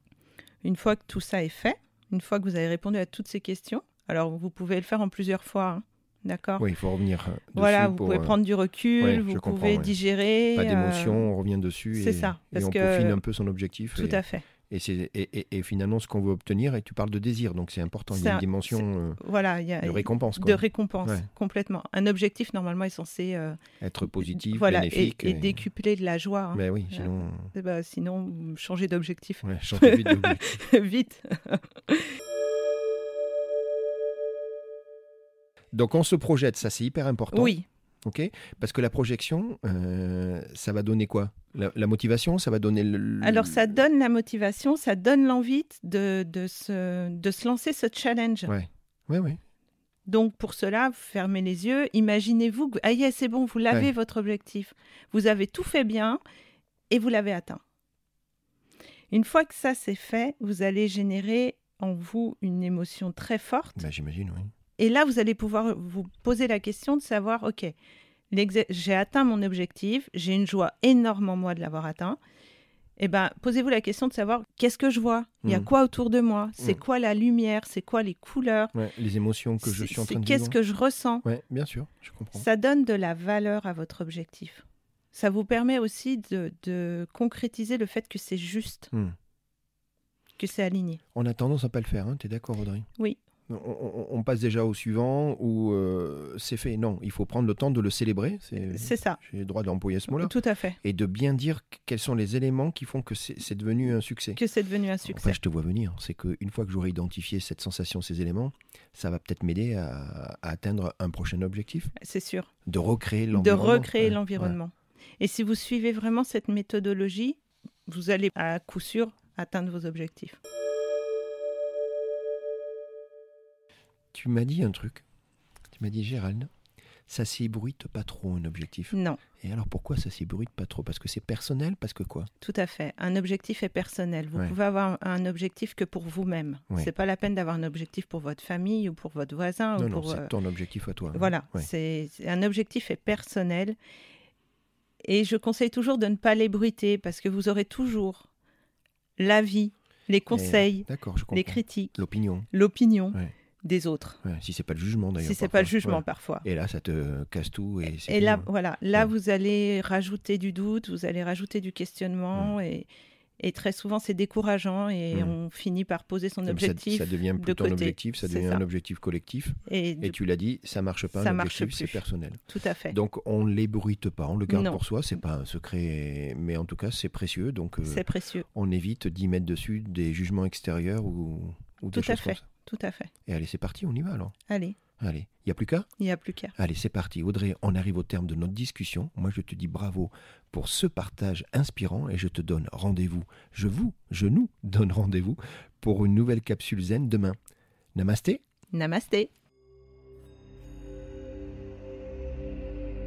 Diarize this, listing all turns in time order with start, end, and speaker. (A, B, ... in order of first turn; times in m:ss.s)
0:00.6-0:06.6 A
0:06.6-0:08.4 B
0:07.5-0:11.3 A
0:09.0-0:09.9 B
0:10.5-0:19.2 B
0:11.9-0:13.2 A
0:14.0-0:14.5 A
0:18.1-0:23.6 A
0:19.8-0:21.3 B
0:23.8-0:25.6 B
0:24.2-0:32.1 A
0:26.5-0:27.5 B
0:29.4-0:30.6 B
0:35.7-0:43.8 B
0:37.3-0:37.6 A
0:43.2-0:48.5 A
0:48.5-0:49.4 B
0:50.0-0:56.2 A
0:56.9-0:57.6 A
0:59.1-1:03.8 A
1:03.8-1:04.5 B
1:04.8-1:07.7 A
1:08.3-1:12.2 A
1:13.0-1:18.7 A
1:15.4-1:15.7 B
1:18.7-1:20.6 B
1:19.6-1:21.2 A
1:21.2-1:22.4 B
1:22.3-1:28.9 A
1:30.4-1:31.0 A
1:31.1-1:32.9 B
1:33.5-1:44.4 B
1:38.7-1:39.2 A
1:40.1-1:40.8 A
1:44.4-1:45.4 A
1:45.0-1:51.9 B
1:52.0-1:52.5 A
1:52.6-1:54.6 B
1:53.3-2:00.4 A
2:04.1-2:05.0 B
2:05.7-2:06.5 B
2:07.1-2:12.3 B
2:08.9-2:09.2 A
2:12.4-2:20.3 A
2:19.8-2:21.7 B
2:21.1-2:23.8 A
2:25.0-2:28.3 A
2:29.2-2:32.0 A
2:30.3-2:32.5 B
2:32.5-2:34.2 A
2:34.2-2:39.1 B
2:35.2-2:36.4 A
2:37.8-2:42.9 A
2:43.4-2:48.6 A
2:45.1-2:45.4 B
2:46.4-3:02.4 B
2:49.6-2:50.2 A
2:51.1-2:52.9 A
2:54.5-2:54.8 A
2:57.8-2:58.4 A
3:01.9-3:03.1 A
3:03.2-3:04.3 B
3:04.5-3:04.8 A
3:05.0-3:05.9 B
3:06.0-3:06.5 A
3:06.6-3:17.4 B
3:17.9-3:18.4 B
3:18.7-3:19.3 A